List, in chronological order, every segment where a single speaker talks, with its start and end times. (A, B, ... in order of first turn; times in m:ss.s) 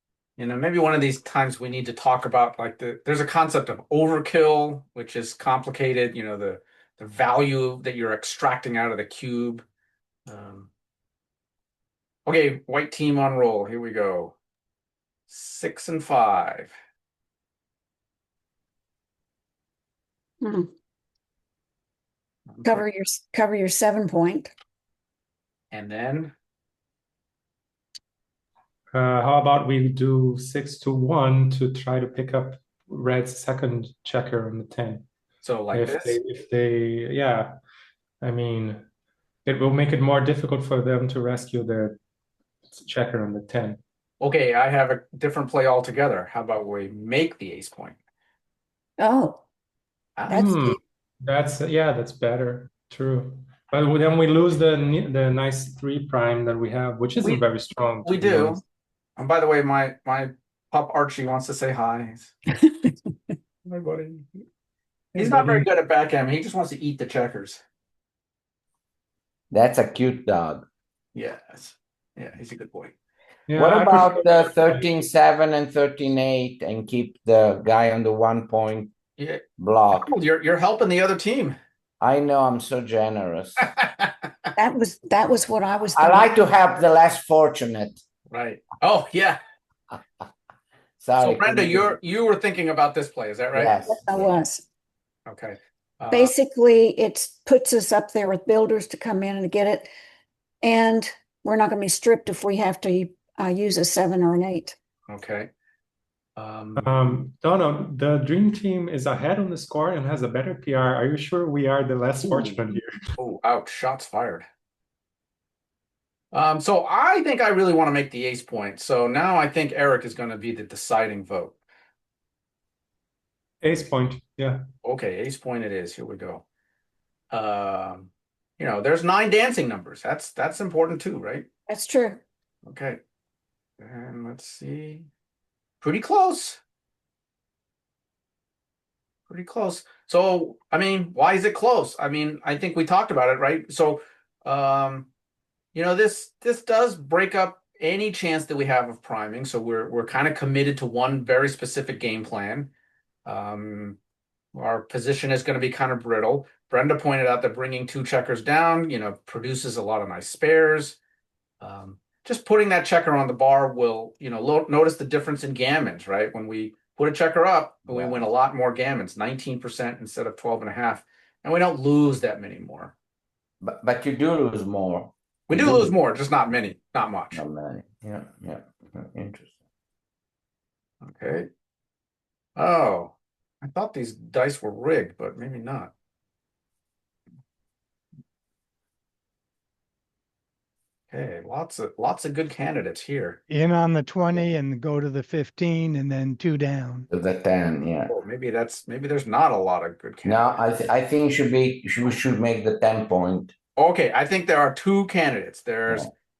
0:00.4-0:09.6 A
0:10.3-0:10.7 A
0:12.2-0:14.3 A
0:15.3-0:16.8 A
0:20.4-0:20.7 B
0:22.5-0:22.8 A
0:22.6-0:24.5 B
0:25.7-0:26.3 A
0:28.9-0:35.0 C
0:35.4-0:36.2 A
0:35.7-0:37.6 C
0:38.2-0:38.9 C
0:39.4-0:42.0 C
0:42.7-0:43.8 C
0:44.2-0:48.0 A
0:49.0-0:49.4 B
0:50.2-0:50.4 A
0:50.3-0:50.8 B
0:50.3-0:58.6 C
0:58.0-0:58.6 A
0:59.2-1:02.3 A
1:02.6-1:02.9 B
1:03.6-1:04.4 A
1:05.2-1:07.6 A
1:05.2-1:05.6 C
1:09.5-1:10.6 D
1:11.1-1:12.9 A
1:13.5-1:15.0 C
1:13.6-1:18.9 D
1:19.2-1:21.6 A
1:19.6-1:20.1 D
1:22.0-1:23.6 D
1:23.7-1:24.2 A
1:24.6-1:26.4 B
1:25.9-1:28.0 D
1:28.3-1:29.4 A
1:31.0-1:32.0 D
1:31.2-1:33.8 A
1:33.5-1:34.4 D
1:33.8-1:34.6 B
1:35.2-1:36.3 A
1:36.1-1:39.9 B
1:40.6-1:44.8 B
1:45.1-1:45.5 A
1:46.4-1:47.2 A
1:46.8-1:52.9 C
1:52.3-1:52.6 A
1:53.2-1:54.4 A
1:56.3-2:01.6 A
2:03.6-2:04.6 C
2:04.8-2:06.4 A
2:07.3-2:11.4 A
2:11.7-2:12.2 B
2:12.6-2:13.0 A
2:13.8-2:15.1 A
2:15.8-2:16.6 A
2:19.3-2:25.1 A
2:25.7-2:32.7 A
2:33.2-2:34.0 A
2:34.5-2:41.0 A
2:41.6-2:52.9 A
2:47.9-2:48.2 D
2:53.6-2:55.9 D
2:55.5-2:57.4 A
2:57.3-2:59.5 D
3:01.0-3:01.5 A
3:02.6-3:05.9 A
3:11.1-3:13.4 A
3:13.5-3:17.1 E
3:17.1-3:18.1 D
3:18.1-3:20.6 A
3:20.2-3:23.5 D
3:23.8-3:26.1 A